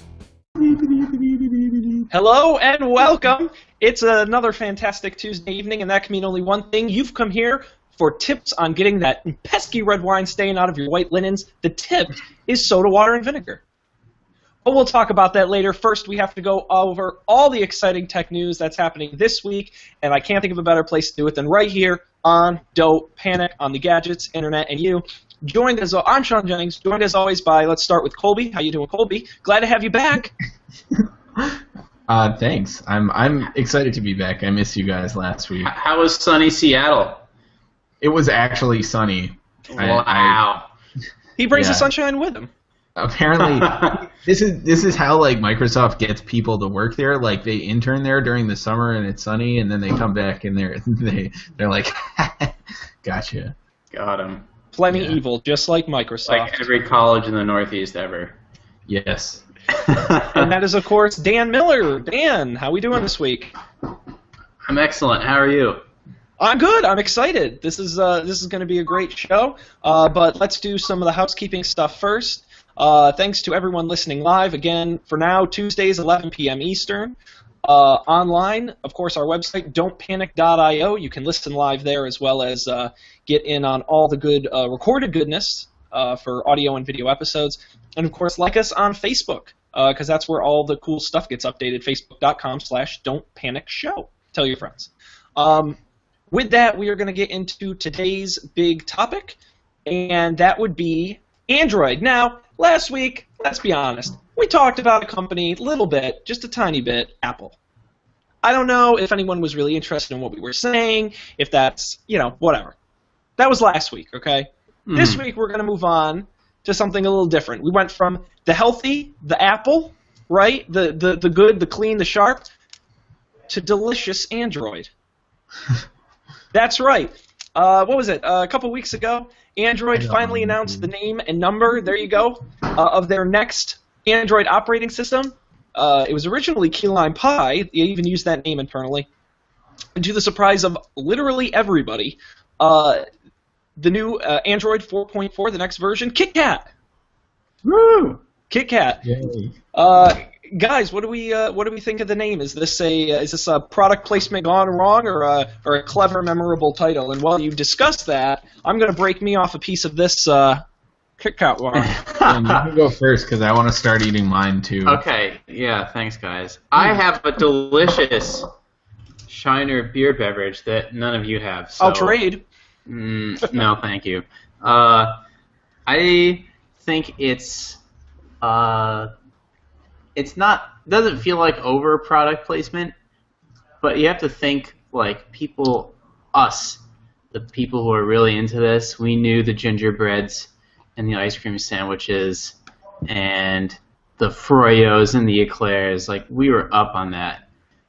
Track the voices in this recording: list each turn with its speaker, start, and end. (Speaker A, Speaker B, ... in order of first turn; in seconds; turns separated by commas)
Speaker A: 0.6-2.0, Speaker B: 2.1-13.6, Speaker B: 14.6-30.3, Speaker A: 30.9-35.7, Speaker C: 35.6-37.2, Speaker A: 38.0-40.4, Speaker C: 39.7-40.7, Speaker B: 41.4-42.5, Speaker A: 41.5-41.9, Speaker A: 43.0-53.5, Speaker C: 43.4-44.0, Speaker C: 53.9-54.5, Speaker B: 54.7-56.6, Speaker A: 54.9-55.2, Speaker C: 56.3-58.4, Speaker A: 58.9-59.4, Speaker C: 59.7-60.5, Speaker B: 60.3-63.5, Speaker C: 64.6-65.8, Speaker B: 66.4-95.8, Speaker B: 96.3-107.6, Speaker B: 108.4-112.7, Speaker B: 113.4-122.5, Speaker C: 114.9-115.2, Speaker B: 123.5-124.9, Speaker B: 126.5-139.1, Speaker A: 129.9-130.9, Speaker B: 139.9-143.0, Speaker B: 143.8-146.7, Speaker C: 147.6-148.2, Speaker B: 148.5-149.0, Speaker A: 149.0-149.5, Speaker B: 149.7-160.6, Speaker B: 161.2-162.0, Speaker C: 161.8-162.6, Speaker A: 162.2-165.0, Speaker C: 164.8-168.5, Speaker C: 169.3-172.2, Speaker B: 171.8-172.4, Speaker C: 172.9-175.2, Speaker C: 175.9-177.8, Speaker C: 178.4-179.1, Speaker C: 180.1-182.9, Speaker C: 183.8-186.8, Speaker C: 187.3-197.4